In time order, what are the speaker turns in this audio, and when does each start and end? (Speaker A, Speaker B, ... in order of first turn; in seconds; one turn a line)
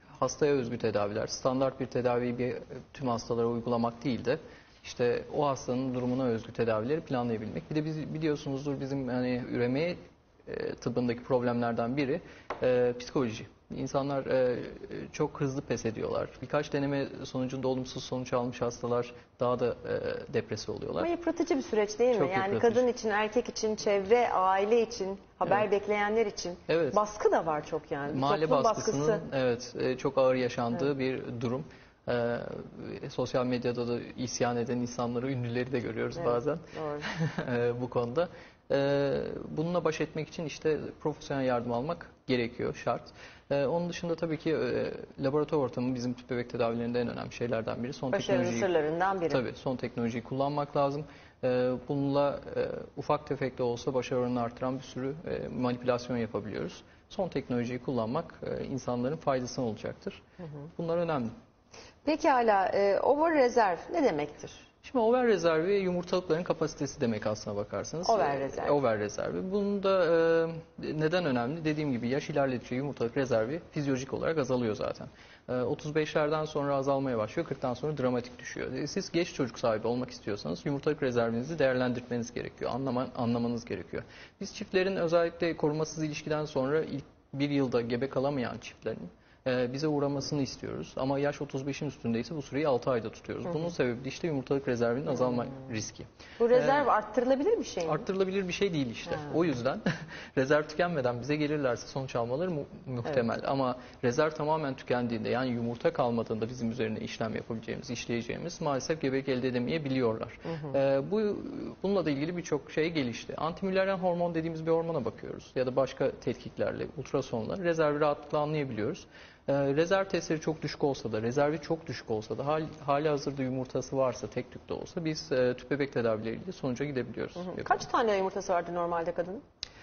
Speaker A: 0.2-21.1
Speaker B: 21.0-29.2
Speaker A: 22.1-22.8
Speaker A: 26.7-27.0
Speaker A: 28.1-48.7
Speaker B: 36.2-37.1
Speaker B: 48.1-49.4
Speaker A: 49.3-60.2
Speaker A: 60.8-61.3
Speaker B: 62.0-64.7
Speaker A: 64.8-96.9
Speaker B: 68.1-68.8
Speaker B: 96.4-98.0
Speaker A: 97.9-127.9
Speaker B: 127.5-129.4